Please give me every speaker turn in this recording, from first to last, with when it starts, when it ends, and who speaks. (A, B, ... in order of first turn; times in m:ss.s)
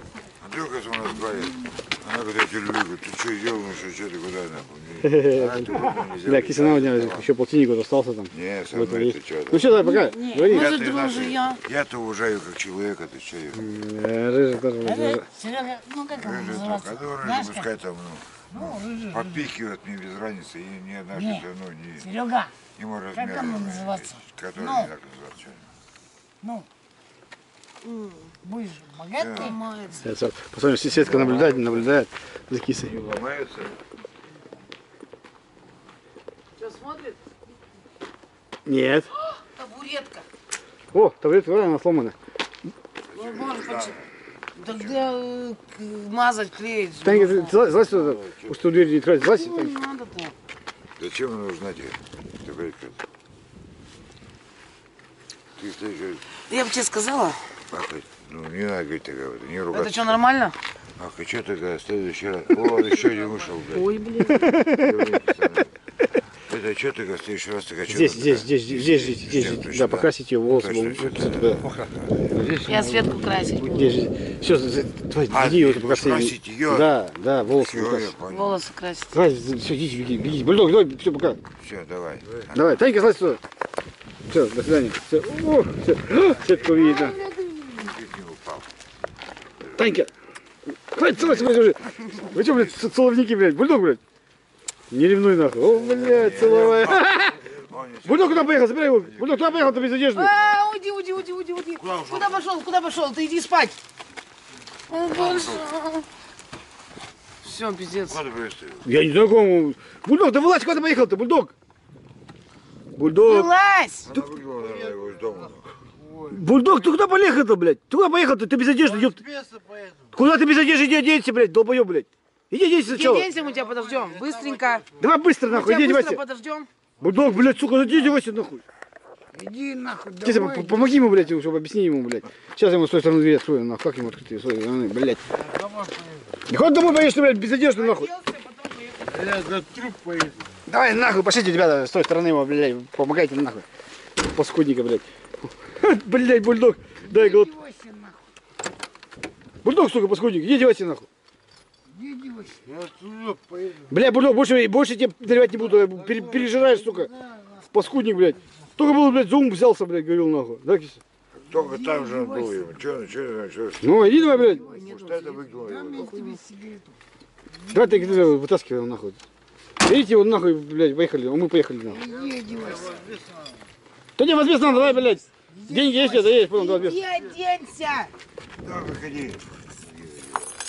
0:00.4-0:07.3 A
0:05.0-0:10.7 B
0:08.3-0:09.8 A
0:09.7-0:10.5 C
0:10.5-0:11.6 D
0:10.5-0:13.7 A
0:13.6-0:15.2 B
0:14.8-0:17.7 C
0:16.1-0:22.1 A
0:18.5-0:19.5 C
0:21.1-0:21.4 C
0:22.0-0:22.5 C
0:22.8-0:25.7 A
0:23.1-0:24.9 C
0:26.4-0:26.7 C
0:27.8-0:28.3 D
0:28.4-0:29.6 C
0:29.2-0:29.5 A
0:29.3-0:30.1 D
0:30.0-0:32.9 B
0:30.9-0:31.9 A
0:32.8-0:33.8 A
0:36.6-0:37.2 D
0:38.7-0:39.1 B
0:39.2-0:40.3 D
0:40.9-0:42.2 B
0:43.1-0:44.0 A
0:43.1-0:44.0 D
0:44.6-0:47.6 D
0:44.7-0:45.0 A
0:47.0-0:49.7 B
0:47.8-0:48.6 A
0:49.2-0:50.4 D
0:51.0-0:53.0 A
0:55.6-0:56.2 A
0:56.5-0:57.5 D
0:57.7-1:00.2 A
0:59.7-1:00.6 D
1:01.0-1:03.9 A
1:03.7-1:04.6 D
1:04.4-1:04.9 B
1:04.8-1:05.7 A
1:06.5-1:12.2 A
1:07.9-1:11.6 B
1:11.6-1:13.7 E
1:12.7-1:14.0 D
1:13.6-1:18.1 B
1:15.3-1:16.9 A
1:17.6-1:18.6 A
1:18.3-1:19.2 D
1:19.1-1:21.4 B
1:21.6-1:22.7 A
1:22.5-1:23.4 B
1:24.3-1:27.2 B
1:26.7-1:27.8 D
1:27.8-1:28.7 A
1:29.8-1:30.1 B
1:30.9-1:34.0 B
1:31.2-1:32.7 A
1:34.9-1:37.4 B
1:35.7-1:39.9 A
1:38.0-1:40.3 B
1:40.1-1:43.8 D
1:41.8-1:42.4 A
1:44.9-1:46.1 D
1:45.1-1:45.6 A
1:47.4-1:48.2 D
1:48.1-1:48.9 A
1:48.8-1:51.5 B
1:53.0-1:53.5 B
1:53.2-1:54.1 D
1:54.1-1:55.7 A
1:54.5-1:56.5 E
1:56.3-1:59.2 B
1:58.8-2:00.2 E
2:00.1-2:03.3 B
2:02.9-2:04.8 D
2:03.4-2:05.1 E
2:05.0-2:06.2 B
2:05.5-2:06.7 D
2:07.0-2:08.6 B
2:07.0-2:07.9 E
2:09.3-2:11.3 C
2:10.2-2:15.2 B
2:15.3-2:16.5 E
2:16.5-2:18.1 B
2:17.7-2:19.2 D
2:19.1-2:20.6 E
2:20.7-2:23.7 B
2:24.2-2:27.5 B
2:27.0-2:28.2 C
2:29.6-2:31.1 B
2:31.9-2:32.6 C
2:32.7-2:34.0 E
2:33.9-2:37.1 B
2:35.8-2:36.3 E
2:36.2-2:37.7 C
2:37.7-2:41.0 B
2:41.4-2:46.1 A
2:41.5-2:42.7 C
2:43.8-2:44.6 B
2:44.2-2:44.9 C
2:44.4-2:46.4 D
2:45.6-2:47.0 C
2:47.6-2:48.4 C
2:47.7-2:49.2 B
2:49.8-2:52.0 B
2:51.9-2:53.0 C
2:52.5-2:53.6 E
2:54.2-2:57.0 B
2:55.5-2:56.7 C
2:56.5-2:58.1 D
2:58.6-2:59.4 A
3:00.0-3:00.4 A